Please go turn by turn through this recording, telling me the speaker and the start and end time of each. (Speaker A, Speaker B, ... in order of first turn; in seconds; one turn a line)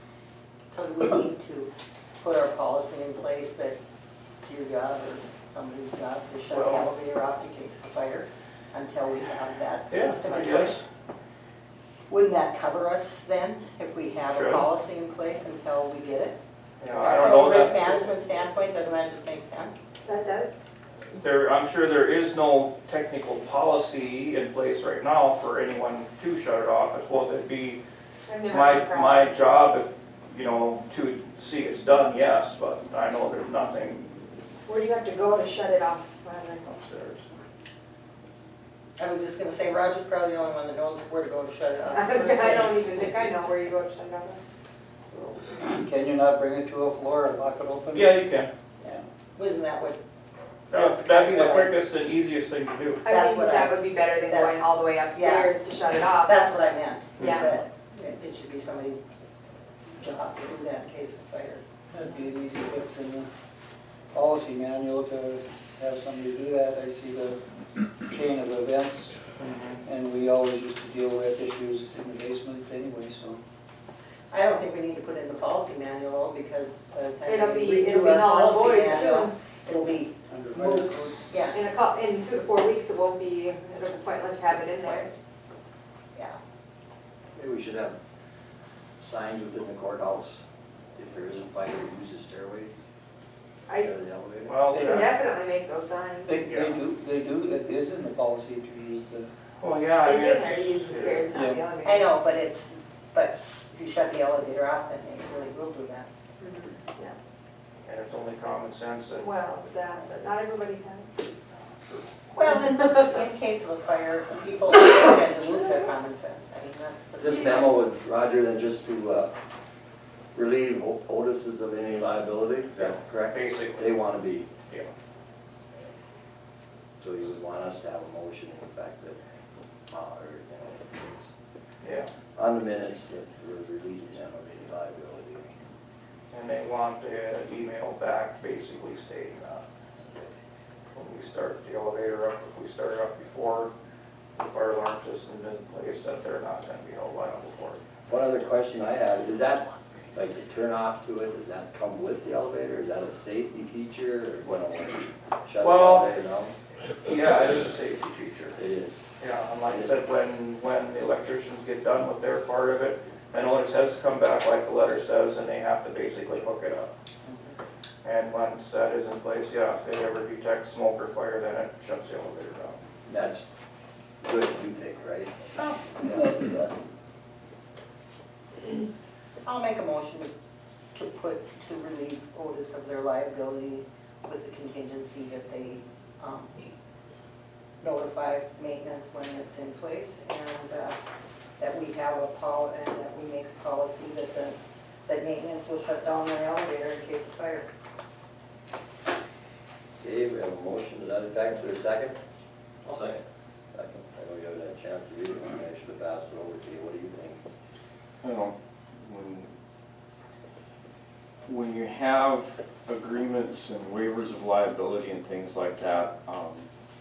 Speaker A: 0.7-3.8
Speaker A: 4.4-10.8
Speaker B: 6.5-6.9
Speaker B: 9.9-10.8
Speaker A: 12.1-16.3
Speaker B: 14.3-14.6
Speaker B: 16.8-18.1
Speaker A: 16.9-19.7
Speaker C: 20.0-20.5
Speaker B: 21.1-27.8
Speaker C: 28.3-29.3
Speaker B: 28.5-34.1
Speaker C: 34.7-36.8
Speaker B: 36.7-37.2
Speaker A: 39.0-43.4
Speaker C: 41.9-44.4
Speaker D: 45.5-48.2
Speaker B: 47.9-48.5
Speaker A: 49.4-50.0
Speaker B: 50.7-53.1
Speaker A: 50.7-51.7
Speaker C: 53.0-56.5
Speaker A: 53.1-55.5
Speaker A: 56.2-59.0
Speaker C: 57.2-57.5
Speaker A: 60.0-61.6
Speaker D: 61.9-63.3
Speaker D: 64.1-67.4
Speaker D: 68.1-69.2
Speaker B: 69.4-69.8
Speaker D: 69.8-73.4
Speaker A: 74.3-81.6
Speaker C: 77.2-79.3
Speaker D: 80.3-81.2
Speaker C: 81.5-85.1
Speaker E: 87.3-88.0
Speaker E: 89.0-90.4
Speaker E: 91.0-92.7
Speaker E: 93.8-94.5
Speaker B: 94.5-95.2
Speaker D: 94.7-95.0
Speaker C: 94.8-96.4
Speaker D: 96.2-99.3
Speaker B: 96.4-96.8
Speaker B: 99.6-101.3
Speaker C: 100.0-102.2
Speaker D: 101.3-101.7
Speaker A: 101.8-106.1
Speaker C: 106.4-107.1
Speaker B: 107.8-109.3
Speaker C: 109.2-111.3
Speaker A: 112.3-117.8
Speaker C: 112.8-113.1
Speaker E: 117.2-119.3
Speaker E: 120.3-124.5
Speaker B: 122.7-123.9
Speaker B: 124.7-124.9
Speaker E: 127.0-129.2
Speaker E: 129.9-131.3
Speaker B: 131.8-132.1
Speaker E: 132.3-135.5
Speaker B: 136.3-139.6
Speaker B: 140.9-143.7
Speaker B: 144.4-147.8
Speaker E: 148.1-156.5
Speaker B: 155.6-156.1
Speaker B: 157.0-158.6
Speaker E: 158.6-159.0
Speaker B: 159.2-166.9
Speaker A: 167.2-167.5
Speaker B: 168.0-172.8
Speaker E: 173.1-173.4
Speaker E: 174.2-176.7
Speaker A: 179.4-180.3
Speaker A: 180.9-186.7
Speaker A: 187.8-190.9
Speaker A: 191.6-197.7
Speaker E: 200.0-202.2
Speaker E: 202.9-203.2
Speaker A: 202.9-203.1
Speaker E: 203.7-207.4
Speaker F: 208.2-209.5
Speaker F: 211.5-216.7